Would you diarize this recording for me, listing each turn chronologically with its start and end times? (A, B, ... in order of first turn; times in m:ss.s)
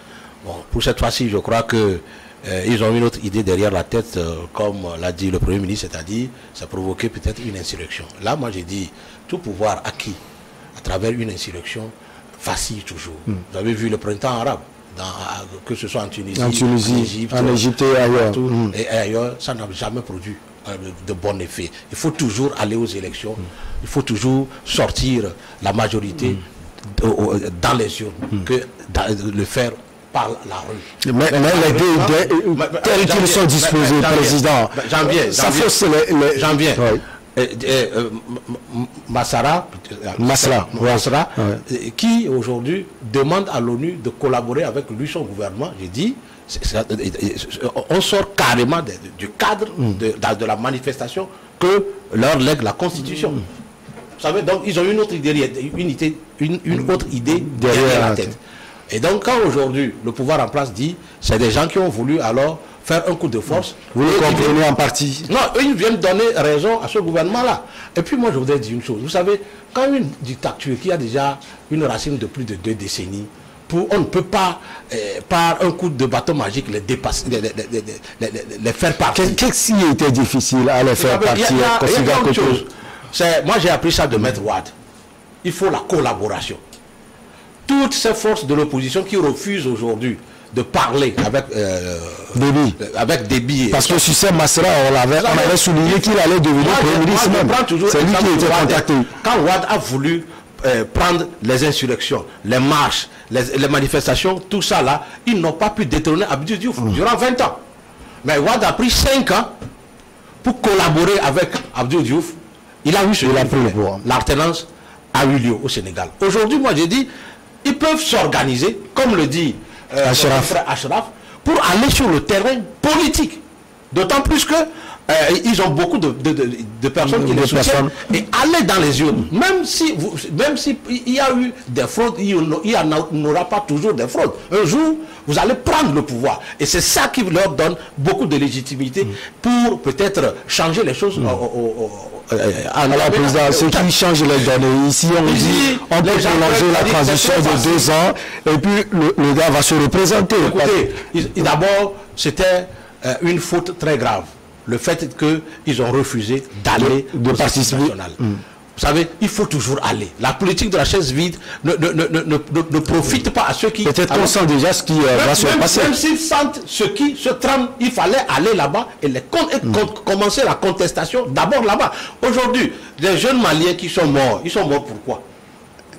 0:00.4-0:10.2 A
0:10.8-0:35.7 A
0:16.3-0:18.7 B
0:31.0-0:37.0 B
0:36.3-0:53.4 A
0:40.2-0:41.6 B
0:54.2-0:58.4 A
0:57.5-0:58.3 B
0:58.9-1:04.6 A
1:04.0-1:05.3 B
1:05.2-1:19.4 A
1:19.1-1:22.6 B
1:21.0-1:24.7 A
1:25.4-1:26.6 A
1:27.7-1:34.0 A
1:32.3-1:32.8 B
1:33.7-1:39.1 B
1:35.2-1:47.6 A
1:48.2-1:49.5 A
1:50.4-1:57.1 A
1:53.2-1:54.0 B
1:57.6-2:03.4 A
2:00.0-2:00.6 B
2:03.9-2:23.9 A
2:07.0-2:07.9 B
2:22.9-2:30.8 B
2:25.2-2:27.9 A
2:30.4-2:38.2 A
2:36.8-2:38.4 B
2:38.8-2:44.4 A
2:43.8-2:45.9 B
2:45.1-2:55.2 A